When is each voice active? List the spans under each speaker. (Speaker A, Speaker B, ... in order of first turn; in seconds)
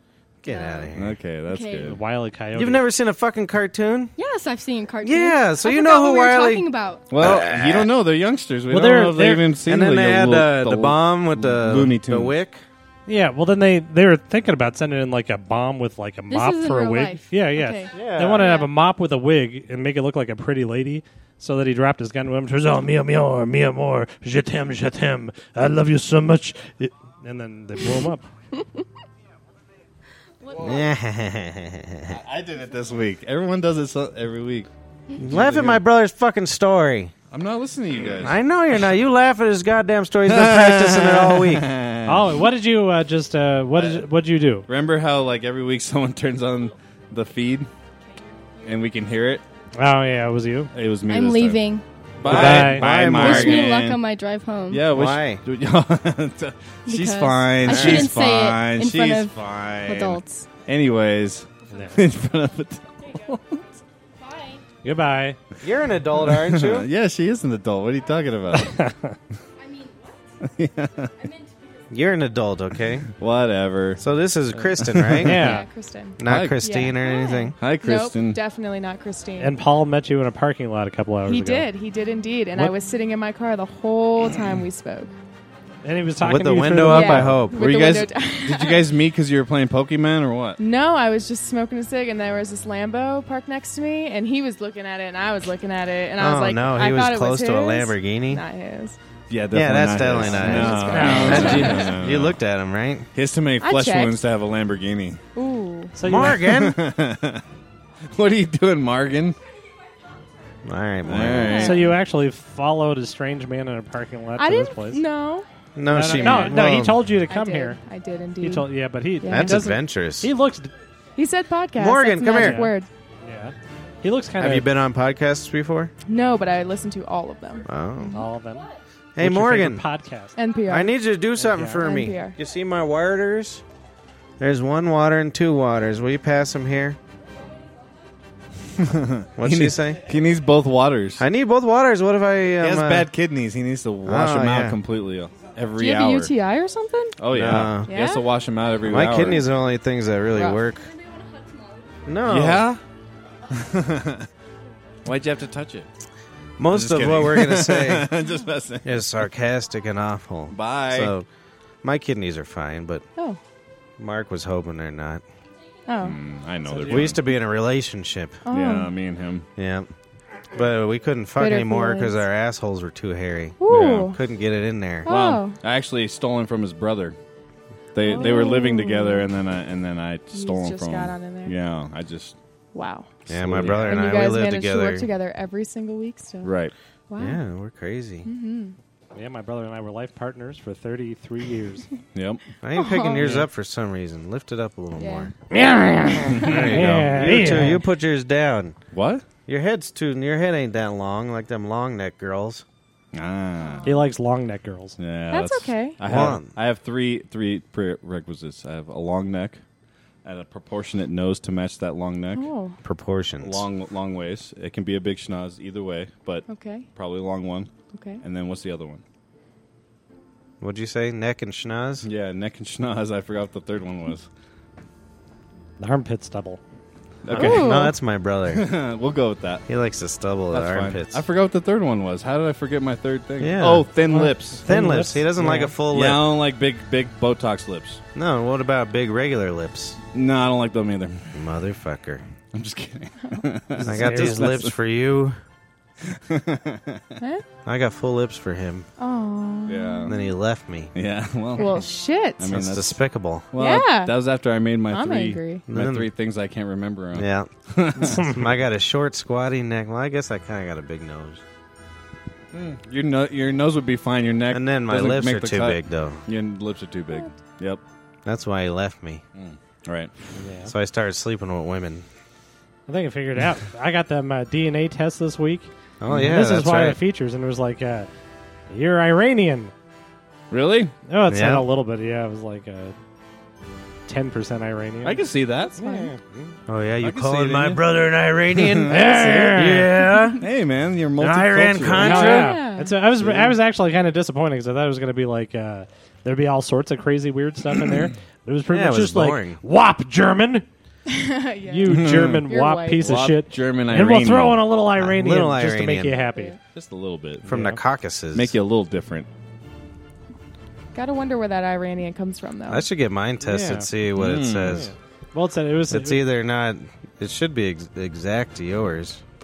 Speaker A: 0.4-1.2, 2.5-4.1, 5.0-6.6, 7.2-7.9, 9.7-12.6, 17.9-18.5, 30.5-32.2, 35.2-37.1, 38.2-41.6, 52.2-53.7, 54.9-55.4, 57.6-58.1, 65.6-66.9, 71.9-73.1, 74.0-75.6, 76.2-77.5, 86.2-87.7, 96.2-98.4, 99.5-103.1, 106.0-106.8, 110.6-111.7, 115.8-117.0, 119.2-120.3, 121.7-122.7, 124.4-125.9, 127.7-128.2, 129.2-129.8, 130.7-133.6, 134.4-137.0, 139.4-140.0, 141.2-143.1, 144.1-144.8, 147.3-147.9, 148.8-150.9, 152.0-152.7, 156.6-158.1, 158.8-161.3, 161.8-163.0, 164.0-165.2, 166.8-168.4, 169.6-169.9, 170.5-175.1, 183.3-185.1, 187.2-188.3, 192.6-195.3, 196.3-198.8, 199.5-202.6, 206.0-206.5, 212.8-213.7, 220.6-222.1, 227.4-228.7, 229.7-231.2, 233.4-233.9, 234.7-236.3, 238.1-240.0, 241.3-242.2, 243.8-245.4, 247.6-248.9, 250.1-250.9, 252.4-253.5, 255.7-256.1, 257.1-261.4, 264.5-266.2, 268.2-269.2, 270.6-272.1, 276.0-277.0, 281.3-281.6, 286.7-290.4, 291.2-292.6, 298.7-299.6, 305.0-306.2, 307.4-308.6, 312.7-314.9, 315.9-319.2
Speaker B: 0.5-0.9, 1.5-2.0, 4.2-7.1, 16.3-18.7, 51.1-51.8, 53.0-54.9, 56.9-60.5, 64.3-64.6
Speaker C: 0.9-2.0, 7.1-12.3, 30.5-30.8, 32.1-34.7, 35.3-35.8, 37.3-38.4, 40.3-42.4, 43.7-44.0, 44.7-47.7, 48.6-49.4, 50.7-51.6, 52.2-54.0, 54.7-63.6, 66.2-68.8, 70.4-71.3, 73.1-74.0, 74.6-75.6, 76.2-76.6, 77.6-78.4, 87.1-90.6, 99.3-102.4, 103.1-105.2, 106.1-107.4, 108.1-109.4, 111.0-112.0, 138.8-141.2, 142.6-146.3, 147.2-149.4, 152.2-152.8, 153.5-154.3, 155.0-155.9, 156.7-159.0, 160.5-161.1, 166.0-167.2, 168.5-169.4, 173.7-174.2, 175.1-177.2, 177.9-182.3, 183.3-183.9, 186.4-186.7, 192.1-192.4, 196.3-197.6, 198.9-199.2, 203.1-204.0, 205.0-209.6, 210.2-212.4, 213.4-219.0, 222.0-224.3, 227.2-227.7, 228.5-229.7, 230.5-234.7, 235.9-238.0, 240.1-241.3, 242.5-244.7, 246.0-247.0, 249.7-250.2, 250.9-253.0, 253.5-258.3, 262.5-267.8, 269.4-270.1, 280.5-280.9, 285.0-285.7, 287.0-287.8, 288.5-289.3, 290.4-292.3, 293.2-293.5, 301.9-302.5, 303.0-304.6, 306.7-307.4, 308.3-309.3, 314.2-314.9
Speaker D: 1.8-2.8, 8.7-9.5, 13.1-28.2, 42.0-44.6, 49.7-50.7, 52.2-52.9, 61.7-62.0, 64.8-65.4, 68.5-69.2, 75.2-75.7, 79.4-81.7, 85.8-87.2, 100.9-101.7, 106.0-106.5, 111.6-115.0, 115.9-117.8, 118.4-120.7, 122.3-124.7, 128.1-130.3, 131.4-131.8, 166.7-167.1, 183.6-183.9, 189.1-191.9, 193.2-193.5, 195.5-197.8, 203.8-205.0, 225.8-226.6, 227.3-227.6, 234.1-235.7, 243.8-244.5, 258.0-258.4, 270.4-270.7, 272.9-278.1, 278.7-279.7, 281.1-282.9, 284.1-285.2, 285.8-286.5, 288.9-289.9, 292.0-300.6, 301.7-306.6, 307.5-307.8, 313.4-313.9, 314.7-316.2
Speaker E: 18.4-18.6, 75.3-79.6, 81.2-85.1, 86.8-88.9, 90.6-99.0, 100.3-101.9, 103.6-104.2, 105.3-106.0, 111.4-111.9, 114.4-115.5, 116.1-116.5, 117.3-118.7, 119.2-119.7, 121.2-122.9, 126.0-128.3, 130.3-130.9, 131.8-132.3, 145.8-147.2, 147.9-148.3, 150.3-150.6, 165.9-166.2, 168.4-168.9, 171.4-172.2, 173.6-174.2, 175.0-175.6, 178.0-179.3, 180.3-181.6, 182.7-183.1, 183.7-186.5, 187.1-187.4, 188.2-188.8, 192.8-193.2, 194.9-195.3, 205.3-206.0, 212.3-212.8, 216.5-216.9, 217.9-218.2, 227.3-227.9, 247.2-247.4, 249.0-250.2, 251.6-252.4, 253.6-254.1, 254.9-255.6, 285.8-286.1, 292.0-292.9, 301.1-303.1, 306.3-306.6, 310.9-312.9